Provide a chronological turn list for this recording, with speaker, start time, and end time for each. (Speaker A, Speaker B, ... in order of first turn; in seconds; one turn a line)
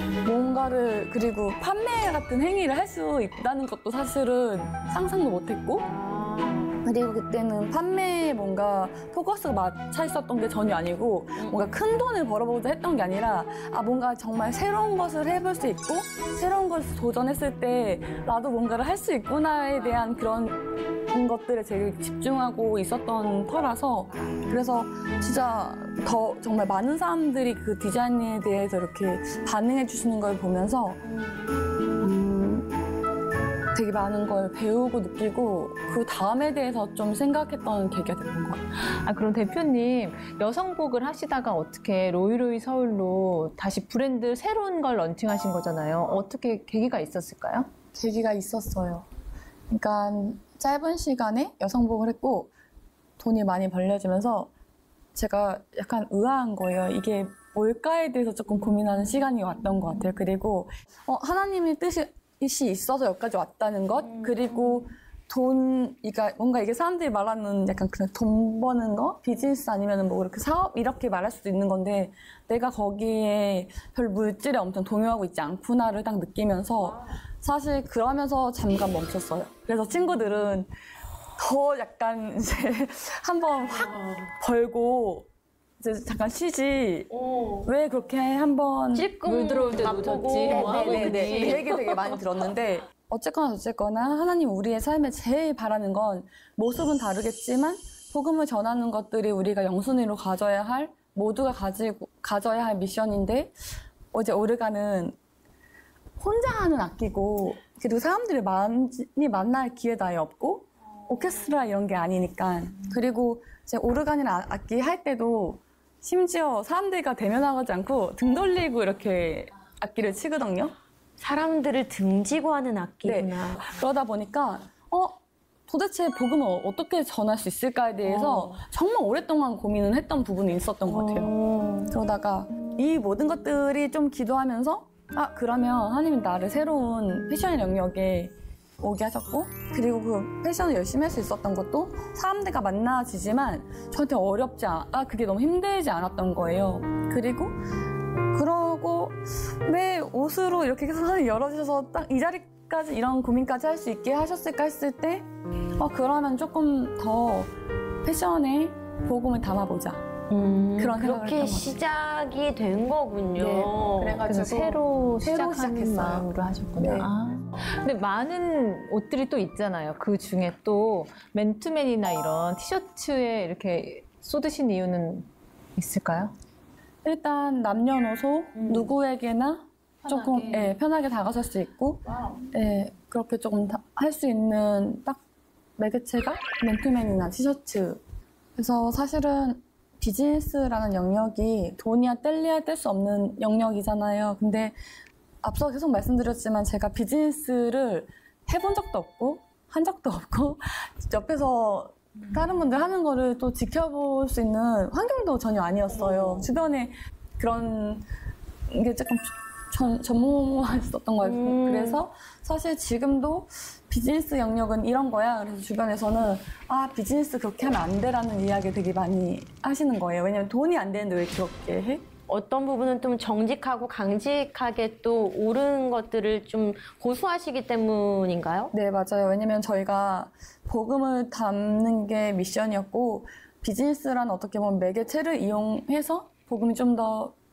Speaker A: 0.2-5.9
Speaker B: 5.8-6.7
Speaker A: 6.8-31.0
Speaker B: 11.3-11.7
Speaker B: 31.0-31.4
Speaker A: 32.0-32.7
Speaker A: 33.7-38.6
Speaker C: 38.8-47.7
Speaker A: 47.9-49.0
Speaker A: 49.7-52.5
Speaker A: 53.2-54.5
Speaker A: 55.1-80.7
Speaker B: 64.0-64.8
Speaker A: 81.4-85.3
Speaker A: 85.8-87.1
Speaker B: 87.1-87.7
Speaker A: 87.6-89.1
Speaker B: 88.9-91.9
Speaker C: 89.2-91.8
Speaker A: 90.5-103.5
Speaker A: 104.1-105.2
Speaker A: 106.2-120.7
Speaker B: 121.2-123.7
Speaker A: 123.0-131.3
Speaker B: 128.0-128.6
Speaker B: 130.8-131.9
Speaker A: 131.9-147.5
Speaker A: 148.3-155.3
Speaker A: 155.8-157.5
Speaker A: 158.0-160.0
Speaker B: 160.3-164.3
Speaker A: 160.8-161.8
Speaker A: 163.4-167.1
Speaker C: 164.2-176.3
Speaker A: 177.0-185.2
Speaker C: 180.0-180.8
Speaker A: 185.8-188.0
Speaker A: 188.6-194.7
Speaker A: 195.4-208.0
Speaker B: 205.9-206.6
Speaker A: 208.7-222.0
Speaker B: 211.2-212.0
Speaker B: 222.3-228.7
Speaker A: 228.7-237.3